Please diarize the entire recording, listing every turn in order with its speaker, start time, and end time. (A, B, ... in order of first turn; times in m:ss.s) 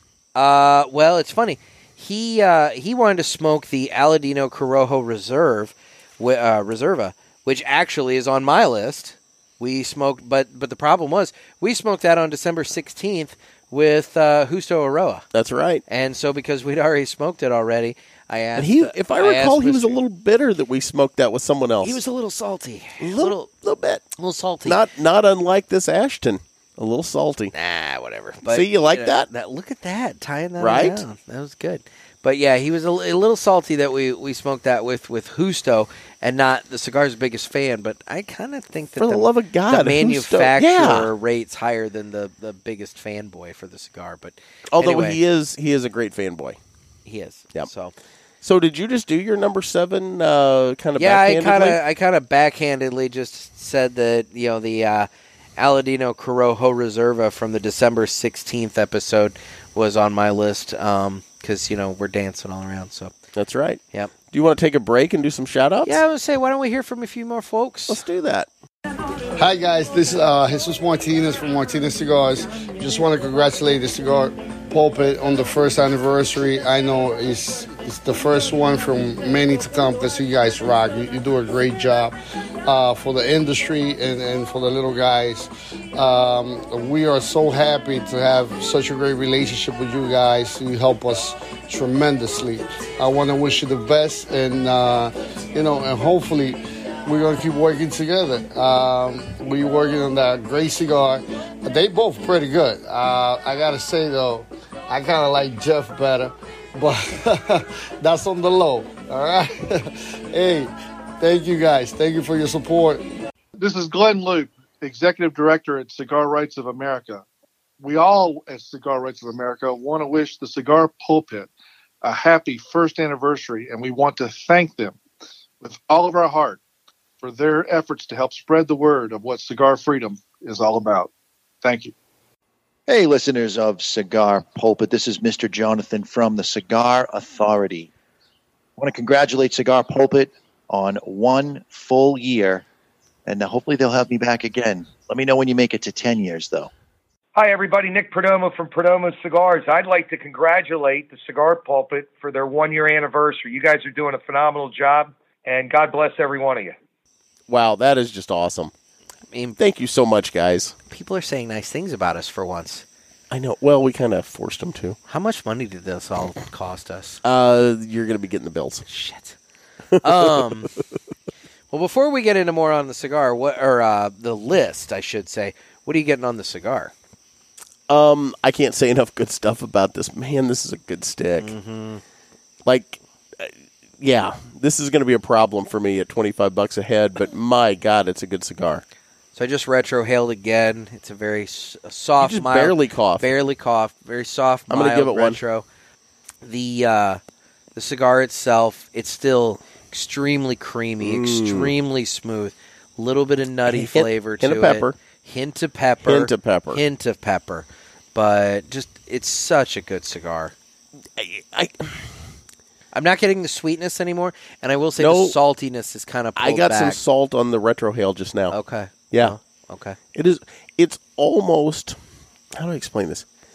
0:00.4-0:15.2 A
0:15.3-0:15.8 B
0:15.9-0:20.0 A
0:18.6-0:22.0 B
0:21.8-0:23.5 A
0:23.0-0:24.0 B
0:24.2-0:24.8 A
0:24.6-0:27.5 B
0:27.5-0:45.2 A
0:28.4-0:29.3 B
0:30.6-0:31.0 B
0:39.0-0:41.1 B
0:44.7-0:46.6 B
0:47.1-0:47.9 A
0:48.4-0:51.8 B
0:51.0-1:03.1 A
1:03.4-1:03.8 B
1:04.3-1:06.0 B
1:05.8-1:08.0 A
1:07.9-1:08.5 B
1:09.4-1:53.0 C
1:53.6-1:57.2 D
1:57.8-2:01.5 D
2:02.0-2:05.0 D
2:05.6-2:06.6 D
2:07.2-2:11.1 D
2:11.6-2:11.9 D
2:12.9-2:17.9 E
2:18.8-2:22.6 E
2:23.3-2:26.7 E
2:27.4-2:36.8 F
2:37.5-2:38.7 B
2:39.3-2:39.6 A
2:39.6-2:40.8 B
2:40.9-2:42.8 A
2:43.3-2:45.0 B
2:45.1-2:47.2 A
2:47.2-2:48.8 B
2:48.9-2:49.4 A
2:50.0-2:50.5 B
2:50.0-2:50.7 A
2:51.7-2:56.9 A
2:57.9-3:01.5 B
3:01.4-3:02.0 A
3:02.6-3:08.8 B
3:09.4-3:15.7 A
3:12.2-3:13.3 B
3:14.7-3:15.4 B
3:16.4-3:17.2 A
3:17.8-3:30.5 A
3:21.0-3:21.8 B
3:23.7-3:25.0 B
3:26.0-3:26.8 B
3:31.2-3:32.1 B
3:32.9-3:37.0 A
3:35.0-3:35.4 B
3:36.4-3:38.6 B
3:38.5-3:40.0 A
3:39.1-3:39.4 B
3:40.1-3:42.0 B
3:42.5-3:43.3 B